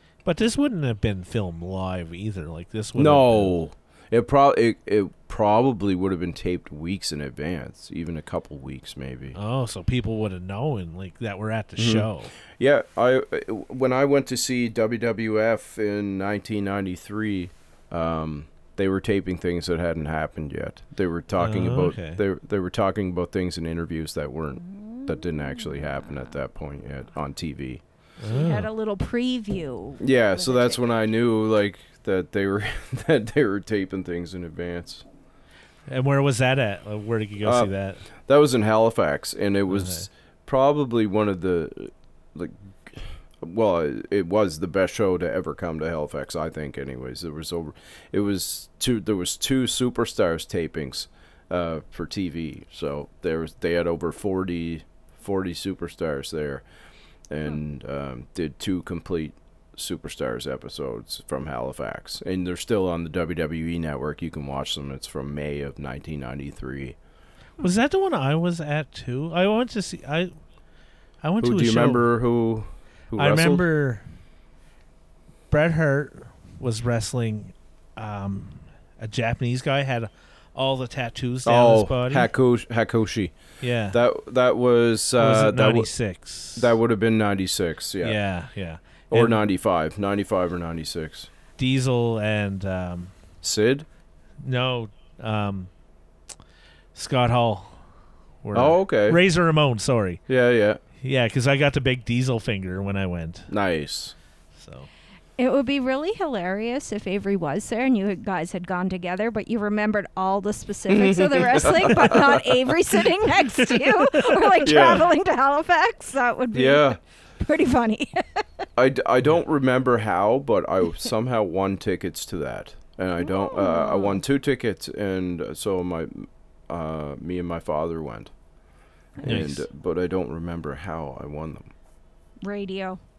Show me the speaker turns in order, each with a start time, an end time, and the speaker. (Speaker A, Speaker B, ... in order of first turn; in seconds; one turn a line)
Speaker A: 0.2-3.5
Speaker B: 3.0-9.4
Speaker A: 9.3-12.3
Speaker B: 11.8-27.8
Speaker A: 21.4-22.2
Speaker C: 24.6-26.3
Speaker A: 28.2-28.7
Speaker C: 28.3-30.8
Speaker B: 30.0-35.0
Speaker A: 35.9-38.0
Speaker B: 37.4-37.7
Speaker B: 38.2-56.6
Speaker A: 39.7-40.1
Speaker B: 57.3-67.0
Speaker A: 67.6-70.3
Speaker A: 71.2-72.1
Speaker B: 71.4-73.7
Speaker A: 73.2-74.0
Speaker A: 75.5-82.3
Speaker B: 81.4-83.3
Speaker A: 83.6-84.0
Speaker B: 83.9-85.9
Speaker A: 85.2-86.7
Speaker B: 86.5-88.2
Speaker A: 88.0-89.4
Speaker B: 89.1-91.3
Speaker A: 91.6-93.1
Speaker B: 93.4-93.9
Speaker A: 94.4-95.7
Speaker A: 96.9-97.8
Speaker A: 98.4-100.2
Speaker B: 98.5-99.2
Speaker B: 100.3-100.8
Speaker A: 101.0-103.5
Speaker B: 103.5-104.1
Speaker A: 104.5-104.9
Speaker C: 105.4-118.2
Speaker B: 110.9-112.8
Speaker B: 114.6-115.1
Speaker B: 116.5-117.0
Speaker B: 118.8-128.3
Speaker C: 123.2-124.2
Speaker B: 129.2-131.7
Speaker A: 129.2-129.7
Speaker C: 132.4-133.0